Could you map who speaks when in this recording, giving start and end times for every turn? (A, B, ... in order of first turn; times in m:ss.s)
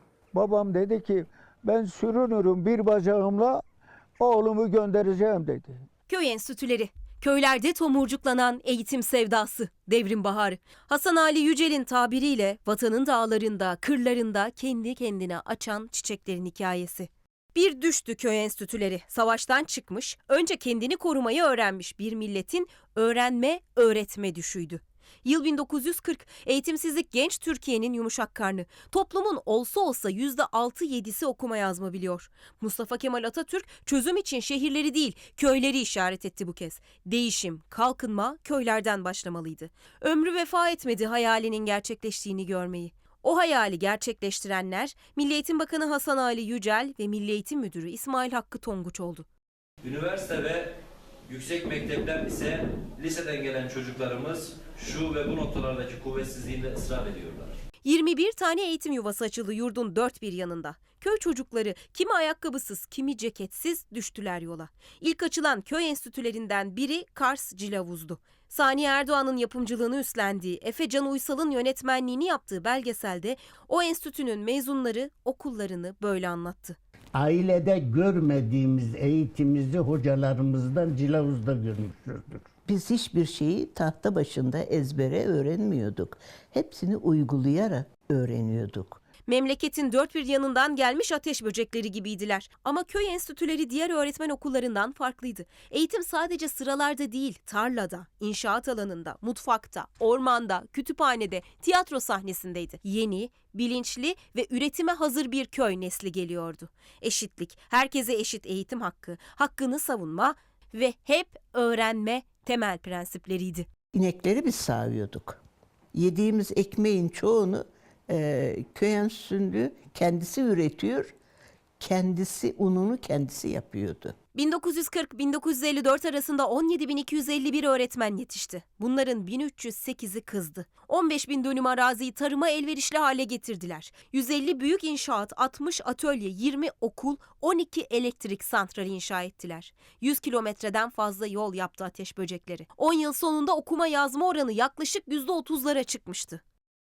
0:00.3-0:03.6 A
0:04.2-0:05.8 A
0:06.1-0:49.3 B
0:49.8-0:50.7 C
0:51.3-0:57.6 C
0:57.8-1:16.8 B
1:17.2-1:22.4 D
1:22.7-1:29.0 E
1:29.3-1:53.7 B
1:53.9-1:55.4 E
1:55.9-2:01.1 E
2:01.8-2:04.2 E
2:04.4-2:26.4 B